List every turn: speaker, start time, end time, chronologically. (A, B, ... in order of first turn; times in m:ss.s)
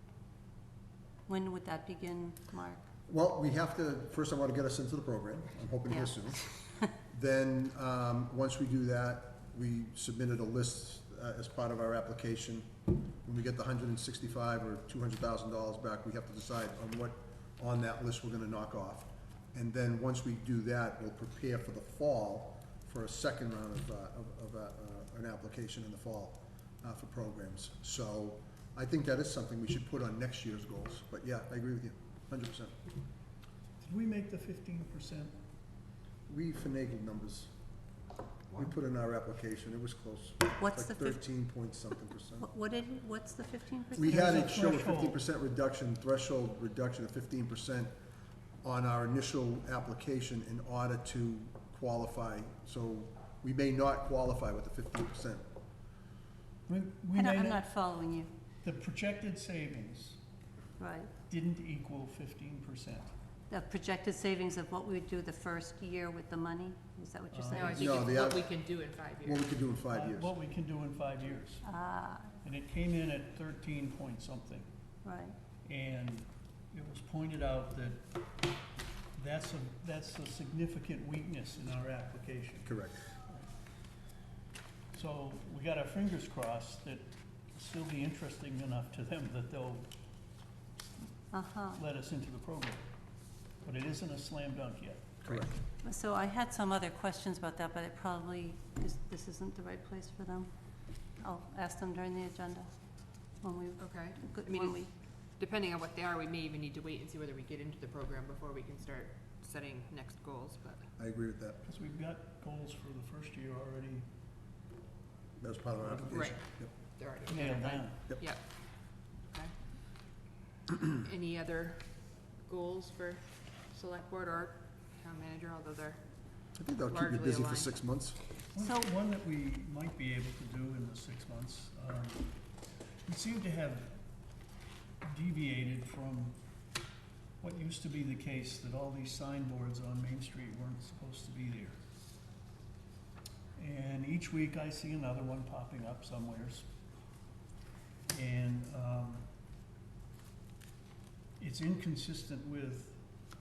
0:01.3-0:02.8 A
0:03.1-0:12.7 B
0:05.9-0:06.9 A
0:13.2-0:32.8 B
0:33.8-0:35.3 C
0:36.3-0:37.5 B
0:38.6-0:42.5 B
0:40.6-0:41.2 A
0:42.4-0:44.4 A
0:44.0-0:47.9 B
0:44.1-0:45.2 C
0:48.6-0:55.4 B
0:56.7-0:57.6 C
0:57.1-0:58.3 A
0:58.6-1:00.2 C
1:00.8-1:01.1 A
1:01.3-1:03.1 C
1:03.5-1:08.2 A
1:07.3-1:07.8 C
1:07.5-1:09.6 D
1:07.7-1:08.6 B
1:09.2-1:10.3 B
1:09.9-1:11.7 C
1:11.6-1:12.3 A
1:12.4-1:14.7 C
1:15.0-1:15.4 A
1:15.7-1:18.0 C
1:19.2-1:23.5 C
1:22.7-1:23.0 B
1:24.9-1:29.9 C
1:31.3-1:31.8 A
1:31.8-1:32.9 C
1:33.6-1:35.5 C
1:35.2-1:35.5 B
1:35.8-1:40.5 A
1:41.2-1:42.7 A
1:43.4-1:44.9 A
1:43.8-1:50.9 D
1:51.0-1:51.6 B
1:51.6-1:54.1 C
1:55.4-1:56.7 B
1:55.8-1:56.3 C
1:56.1-1:58.5 D
1:57.3-1:58.2 C
1:59.3-1:59.6 D
2:00.8-2:07.8 D
2:06.6-2:08.2 B
2:08.5-2:12.3 C
2:13.1-2:14.0 C
2:15.0-2:16.4 C
2:17.4-2:21.8 C
2:23.6-2:26.7 C
2:28.1-2:29.3 C
2:31.4-2:33.0 C